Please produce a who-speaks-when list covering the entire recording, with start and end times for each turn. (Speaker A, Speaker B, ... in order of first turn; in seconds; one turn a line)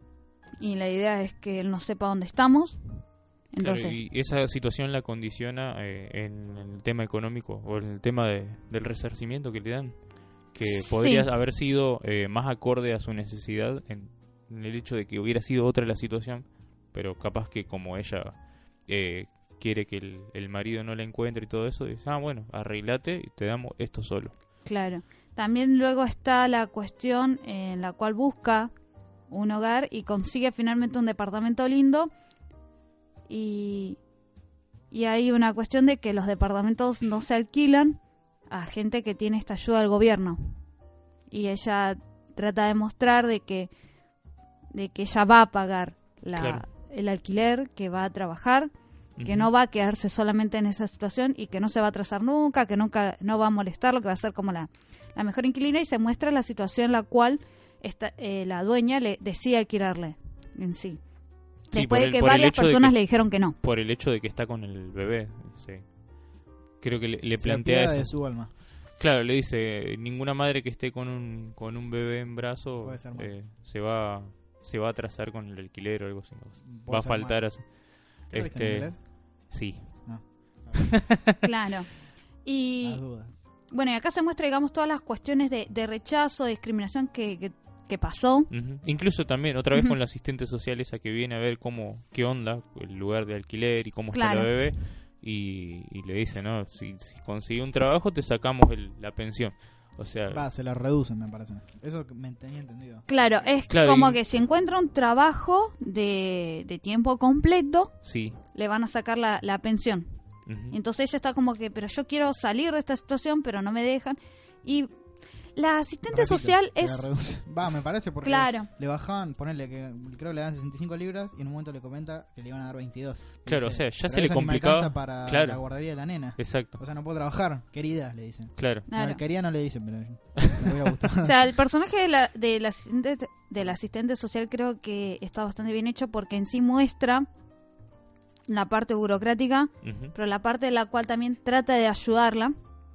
Speaker A: 0.6-4.0
Speaker B: 3.6-24.3
Speaker A: 10.6-11.3
Speaker A: 24.6-28.7
Speaker A: 29.3-32.1
Speaker A: 33.3-34.0
Speaker A: 34.9-40.6
Speaker A: 41.3-43.7
Speaker A: 44.7-48.7
Speaker B: 46.3-46.6
Speaker B: 49.2-49.5
Speaker A: 49.2-61.0
Speaker A: 61.7-63.5
Speaker B: 61.7-66.0
Speaker B: 66.8-81.3
Speaker C: 67.4-68.5
Speaker C: 72.8-73.3
Speaker C: 76.6-77.7
Speaker C: 78.3-79.1
Speaker C: 80.0-81.1
Speaker A: 81.4-81.9
Speaker A: 82.4-83.0
Speaker C: 82.8-83.3
Speaker A: 83.7-88.5
Speaker B: 88.5-100.4
Speaker A: 94.1-94.5
Speaker C: 100.3-103.6
Speaker A: 103.1-110.1
Speaker B: 103.7-104.2
Speaker B: 108.0-108.4
Speaker B: 110.5-110.8
Speaker A: 110.7-114.9
Speaker A: 115.5-117.1
Speaker C: 116.1-131.3
Speaker A: 118.2-118.7
Speaker B: 123.4-126.8
Speaker B: 128.6-128.9
Speaker A: 128.9-129.2
Speaker A: 131.2-137.3
Speaker A: 138.5-142.5
Speaker B: 139.8-140.1